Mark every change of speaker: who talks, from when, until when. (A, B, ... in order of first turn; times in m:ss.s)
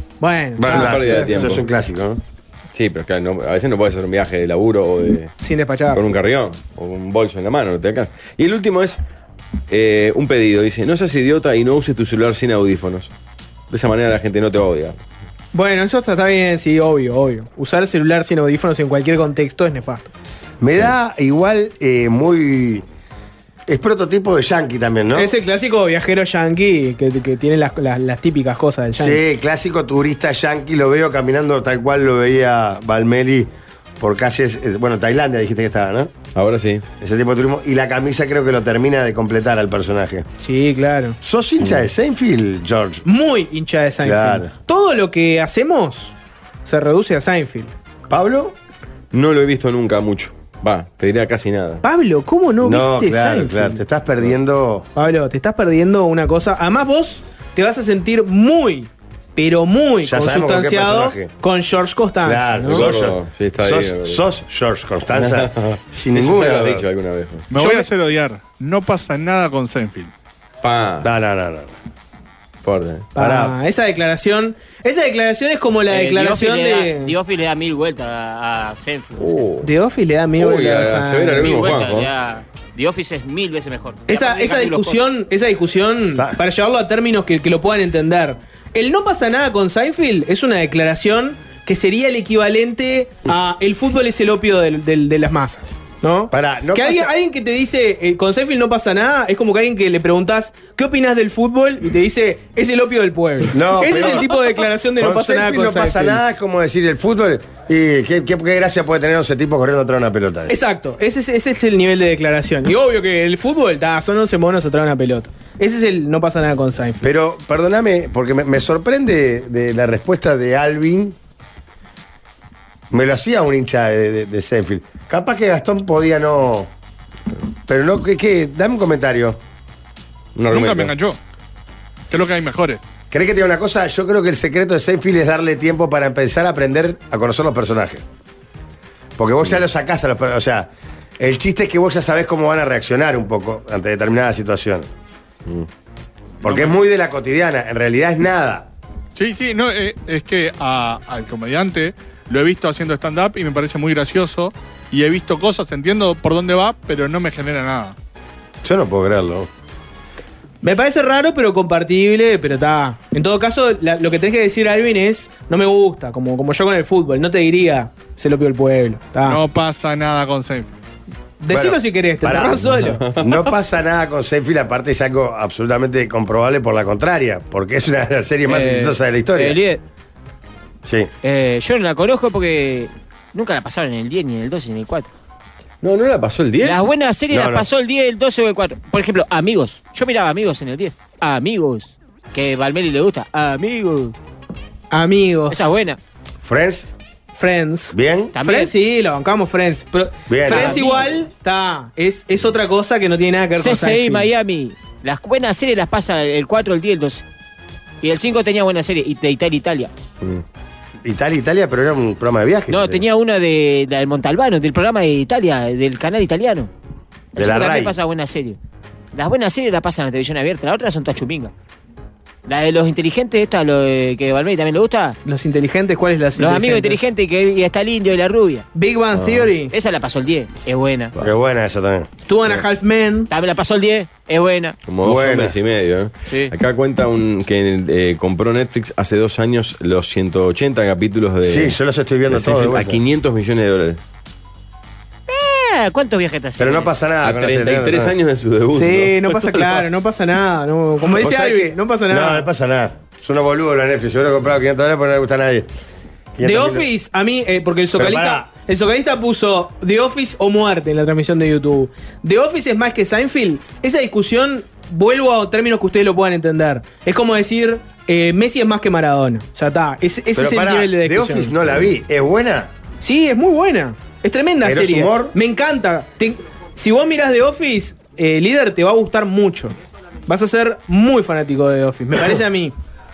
0:00.2-0:01.5 A
0:00.6-0:02.2 B
0:00.6-0:01.6 C
0:02.7-0:05.3 C
0:05.4-0:06.0 A
0:05.9-0:09.0 C
0:09.7-0:13.1 C
0:13.7-0:15.0 C
0:15.5-0:20.1 A
0:20.6-0:22.8 B
0:23.7-0:25.3 B
0:25.1-0:29.2 A
0:28.9-0:36.1 B
0:36.3-0:36.8 C
0:37.0-0:40.3 B
0:40.4-0:41.2 A
0:41.2-0:43.0 B
0:43.0-0:47.7 A
0:44.0-0:44.5 B
0:48.1-0:48.5 B
0:49.1-0:51.8 C
0:51.8-0:53.8 A
0:52.6-0:54.9 B
0:54.9-1:02.8 A
1:00.0-1:01.3 B
1:02.2-1:06.8 B
1:02.7-1:04.2 C
1:05.1-1:07.5 C
1:07.5-1:10.1 D
1:07.6-1:07.9 A
1:10.6-1:11.1 C
1:11.0-1:11.8 B
1:12.6-1:13.1 C
1:13.1-1:17.1 A
1:13.2-1:13.6 B
1:15.9-1:19.4 E
1:19.2-1:19.7 C
1:19.6-1:21.6 A
1:20.4-1:22.1 C
1:21.4-1:25.0 E
1:24.1-1:46.2 A
1:36.3-1:37.1 B
1:43.5-1:44.3 B
1:45.0-1:50.6 B
1:50.5-1:57.0 A
1:57.0-2:01.2 B
2:02.9-2:06.7 B
2:07.7-2:09.4 B
2:10.4-2:10.9 C
2:10.5-2:11.2 D
2:12.1-2:12.8 D
2:13.1-2:18.0 B
2:19.2-2:24.9 B
2:26.4-2:28.7 B
2:26.4-2:26.8 D
2:29.2-2:37.9 D
2:38.6-2:39.5 B
2:40.6-2:49.4 A
2:49.2-2:50.7 D
2:51.4-2:53.0 A
2:51.5-2:59.6 B
2:52.7-2:53.5 C
2:58.5-2:59.8 E
3:00.8-3:01.1 B
3:01.2-3:05.1 E
3:05.8-3:06.9 C
3:06.6-3:14.1 E
3:07.3-3:07.7 B
3:14.9-3:15.8 A
3:15.5-3:16.0 E
3:16.4-3:16.9 B
3:17.3-3:24.2 A
3:17.9-3:18.3 B
3:18.3-3:18.7 E
3:20.3-3:20.9 B
3:20.5-3:21.1 E
3:23.6-3:27.2 E
3:28.0-3:29.9 E
3:31.0-3:33.0 B
3:32.7-3:36.7 E
3:37.3-3:38.6 E
3:37.4-3:37.9 B
3:39.1-3:41.5 E
3:42.4-3:45.2 E
3:45.2-3:47.0 A
3:46.4-3:48.7 E
3:48.7-3:49.7 A
3:49.1-3:49.5 C
3:49.7-3:51.1 E
3:51.2-3:52.1 B
3:52.3-3:53.3 A
3:53.3-3:54.8 E
3:54.9-4:01.8 C
3:55.0-3:55.6 B
4:01.4-4:03.0 B
4:02.3-4:04.0 C
4:05.3-4:06.9 E
4:06.6-4:08.1 B
4:07.2-4:09.8 C
4:08.7-4:12.4 A
4:11.0-4:15.7 B
4:16.3-4:16.9 B
4:16.4-4:31.5 A
4:18.0-4:18.5 B
4:30.3-4:32.7 B
4:33.0-4:39.7 A
4:34.6-4:35.3 B
4:40.3-4:42.7 A